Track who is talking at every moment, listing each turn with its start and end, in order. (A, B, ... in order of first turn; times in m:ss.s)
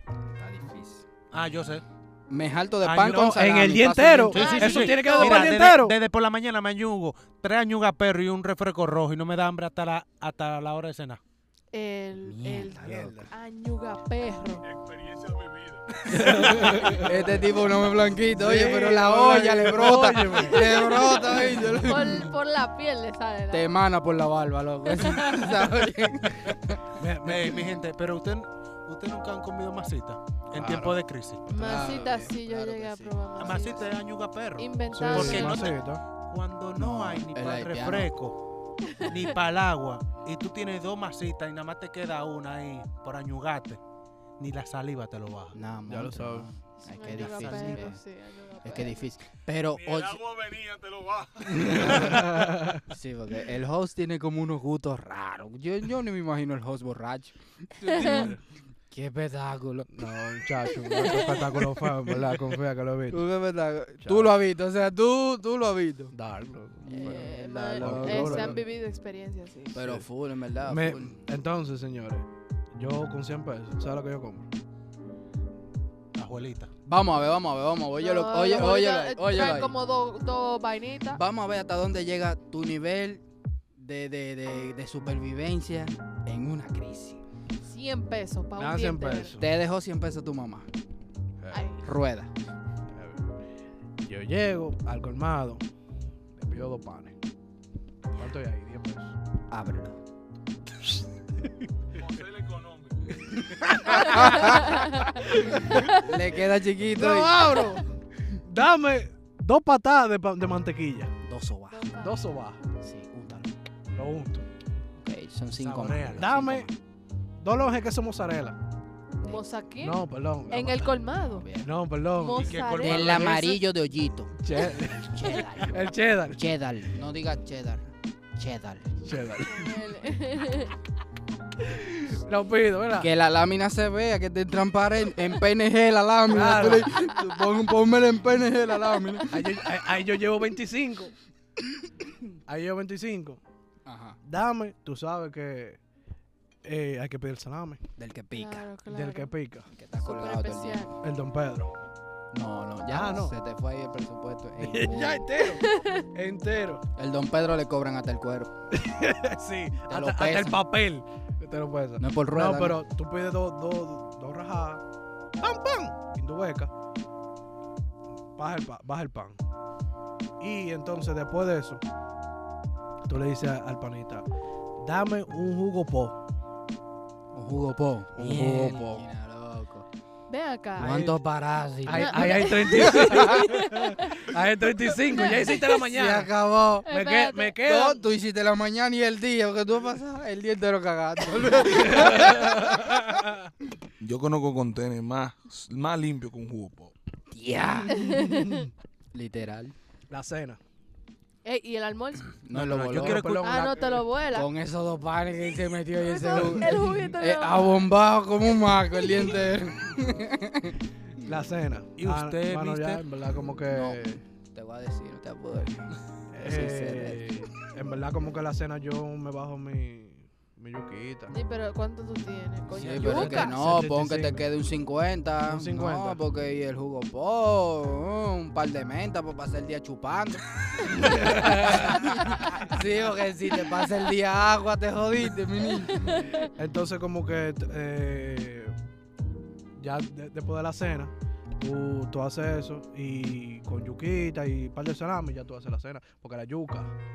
0:00.3-0:01.0 A
0:01.3-0:01.8 B
0:02.3-0:04.6 A
0:02.8-0:03.3 B
0:02.9-0:06.0 C
0:04.3-0:11.2 B
0:04.3-0:05.5 D
0:11.7-0:14.6 D
0:12.2-0:13.3 A
0:12.8-0:13.3 C
0:16.1-0:17.2 C
0:16.1-0:22.3 A
0:18.3-0:21.8 C
0:20.5-0:23.7 D
0:23.5-0:26.8 A
0:24.9-0:25.4 D
0:27.0-0:27.8 C
0:27.2-0:31.4 B
0:30.5-0:33.1 C
0:31.5-0:33.9 D
0:31.6-0:33.8 A
0:33.4-0:38.4 B
0:34.6-0:35.8 D
0:34.9-0:36.0 C
0:36.8-0:38.1 A
0:39.0-0:43.8 B
0:44.4-0:45.6 B
0:45.5-0:48.0 A
0:45.9-0:46.5 C
0:46.8-0:49.1 D
0:47.0-0:47.9 B
0:48.6-0:50.5 A
0:51.4-0:52.8 C
0:51.5-0:58.3 A
0:57.8-0:58.3 D
0:57.9-0:58.4 C
0:58.9-0:59.9 A
0:59.9-1:03.2 C
1:00.9-1:01.4 D
1:03.1-1:06.1 A
1:04.0-1:04.3 C
1:06.1-1:08.6 C
1:06.8-1:08.6 A
1:06.9-1:09.8 D
1:09.7-1:11.2 A
1:09.8-1:10.0 C
1:10.6-1:14.5 C
1:16.1-1:16.7 B
1:16.8-1:19.7 A
1:18.0-1:21.2 D
1:21.1-1:23.2 A
1:23.8-1:27.2 A
1:27.6-1:29.3 D
1:28.6-1:29.5 C
1:29.3-1:30.7 A
1:31.4-1:31.7 C
1:31.5-1:31.8 D
1:31.8-1:32.3 A
1:32.9-1:33.2 C
1:34.0-1:35.6 C
1:36.3-1:37.2 C
1:38.2-1:39.1 C
1:39.5-1:40.0 A
1:41.4-1:42.2 C
1:43.3-1:46.0 C
1:43.5-1:44.8 A
1:44.1-1:45.2 D
1:45.4-1:47.5 A
1:45.7-1:46.1 D
1:46.8-1:51.1 C
1:51.2-1:52.0 A
1:51.7-1:52.2 D
1:52.0-1:52.6 C
1:52.8-1:53.5 A
1:53.9-1:54.4 C
1:55.0-1:56.7 A
1:55.6-1:56.3 B
1:56.2-1:56.7 C
1:57.4-1:58.6 C
1:59.2-2:01.5 D
1:59.8-2:00.8 C
2:00.6-2:01.7 A
2:01.6-2:02.5 C
2:02.1-2:03.5 D
2:02.3-2:03.5 B
2:02.8-2:05.8 A
2:04.4-2:06.4 C
2:06.3-2:08.8 A
2:09.0-2:09.7 C
2:09.4-2:10.8 D
2:11.6-2:13.1 C
2:13.0-2:19.3 A
2:16.3-2:17.0 C
2:17.0-2:17.2 D
2:19.3-2:21.1 C
2:22.5-2:23.4 C
2:23.8-2:24.2 A
2:24.2-2:25.8 C
2:26.6-2:27.8 C
2:28.0-2:28.7 A
2:28.3-2:29.3 D
2:28.9-2:29.7 C
2:29.7-2:31.0 A
2:30.0-2:30.9 D
2:31.0-2:31.7 C
2:32.3-2:35.3 A
2:32.9-2:33.3 C
2:34.6-2:36.8 C
2:35.4-2:36.1 D
2:37.0-2:38.5 A
2:38.7-2:44.8 C
2:39.9-2:40.6 A
2:42.0-2:42.8 A
2:45.4-2:46.7 C
2:48.4-2:49.4 C
2:50.4-2:51.8 C
2:53.0-2:54.2 C
2:54.8-2:56.2 C
2:57.3-2:59.8 A
2:58.2-2:59.0 C
3:00.3-3:01.1 D
3:00.8-3:01.2 C
3:00.8-3:03.5 A
3:01.8-3:06.3 C
3:01.9-3:04.1 D
3:05.1-3:05.6 D
3:05.6-3:06.9 A
3:06.8-3:07.6 D
3:06.9-3:08.0 C
3:07.6-3:13.0 A
3:11.6-3:13.5 C
3:14.0-3:16.9 E
3:17.3-3:18.5 A
3:17.9-3:18.7 D
3:19.1-3:19.7 A
3:20.1-3:20.6 C
3:21.4-3:22.3 D
3:22.4-3:23.3 A
3:22.5-3:23.7 B
3:22.9-3:24.0 C
3:23.4-3:24.5 D
3:24.3-3:30.8 A
3:26.0-3:27.9 D
3:26.3-3:26.9 C
3:31.2-3:34.2 C
3:32.0-3:33.0 B
3:33.7-3:37.5 A
3:36.3-3:41.3 C
3:41.3-3:43.6 D
3:42.7-3:56.3 A
3:42.8-3:43.3 B
3:43.0-3:44.4 C
3:45.4-3:46.2 C
3:50.9-3:52.1 C
3:56.0-3:56.5 D
3:56.6-3:58.7 C
3:59.8-4:06.9 C